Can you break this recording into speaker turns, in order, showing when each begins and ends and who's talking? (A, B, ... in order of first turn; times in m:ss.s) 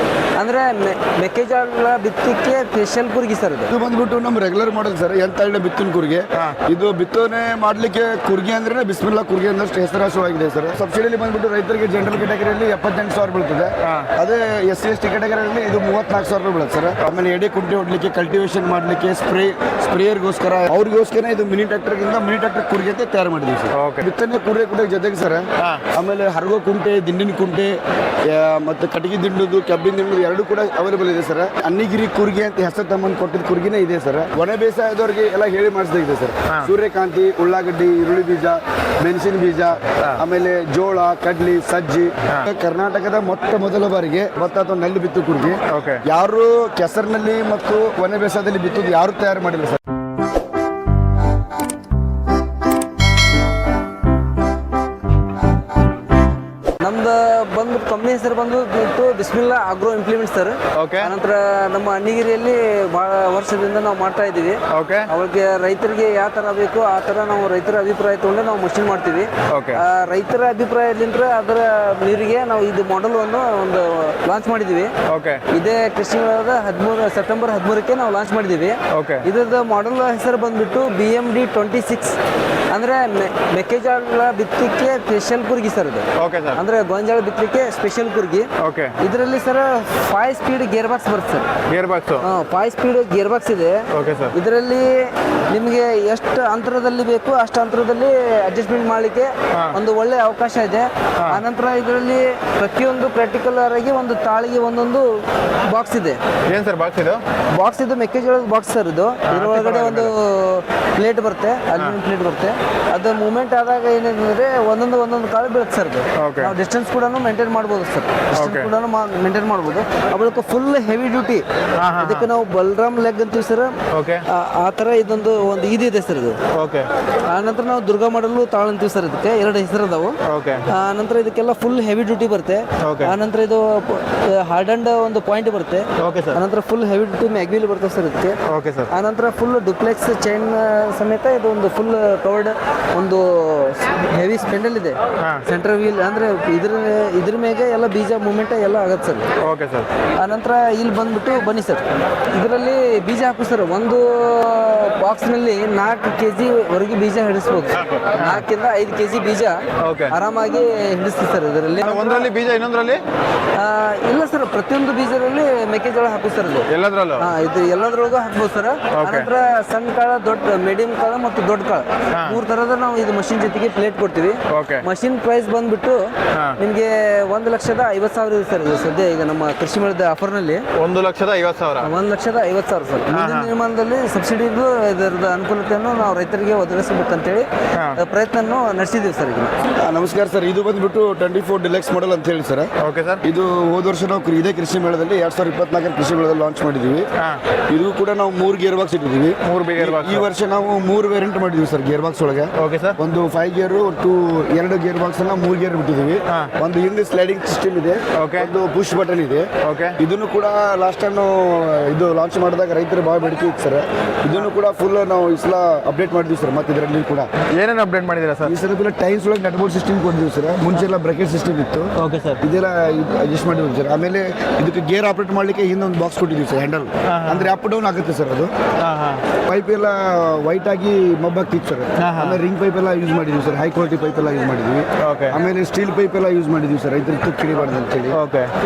0:00.4-0:03.7 A
0:03.7-0:49.8 B
0:13.8-0:14.1 C
0:23.7-0:24.1 C
0:25.6-0:25.8 C
0:39.9-0:40.2 C
0:45.7-0:46.0 C
0:56.8-1:14.9 A
1:00.7-1:01.1 C
1:04.7-1:05.1 C
1:09.5-1:09.8 C
1:15.1-1:15.4 C
1:15.5-1:22.2 A
1:18.9-1:19.2 C
1:22.7-1:28.5 A
1:26.2-1:26.6 C
1:28.6-1:29.0 C
1:29.0-1:31.5 A
1:31.7-1:32.2 C
1:32.2-1:46.2 A
1:33.9-1:34.3 C
1:39.5-1:39.8 C
1:46.5-1:47.2 C
1:47.5-2:06.4 A
1:49.3-1:50.1 C
1:56.2-1:56.5 C
1:58.4-1:58.7 C
2:01.8-2:02.3 C
2:03.9-2:04.2 C
2:06.5-2:06.9 C
2:07.3-2:10.2 A
2:10.2-2:10.7 C
2:10.7-2:29.3 A
2:12.8-2:13.2 C
2:16.0-2:16.4 C
2:18.5-2:18.9 C
2:25.2-2:25.4 C
2:29.4-2:29.9 C
2:30.2-2:39.6 A
2:37.9-2:38.4 C
2:39.8-2:40.1 C
2:40.1-2:42.3 A
2:41.8-2:43.0 C
2:43.5-3:00.6 A
2:46.7-2:47.3 C
2:48.9-2:49.3 C
2:52.1-2:52.4 C
2:54.5-2:54.8 C
2:56.3-2:56.6 C
3:00.8-3:01.9 C
3:01.8-3:09.5 A
3:03.1-3:03.5 C
3:07.7-3:08.0 C
3:09.8-3:12.7 B
3:12.8-3:13.2 C
3:13.2-3:17.0 B
3:17.7-3:37.3 B
3:19.4-3:20.3 C
3:22.6-3:23.0 C
3:28.2-3:28.5 C
3:29.6-3:30.0 C
3:37.5-3:38.5 C
3:38.4-3:48.5 B
3:42.0-3:42.4 C
3:47.0-3:47.5 C
3:48.8-3:49.2 C
3:49.4-3:58.2 B
3:52.0-3:52.4 C
3:55.0-3:55.4 C
3:58.1-3:58.5 C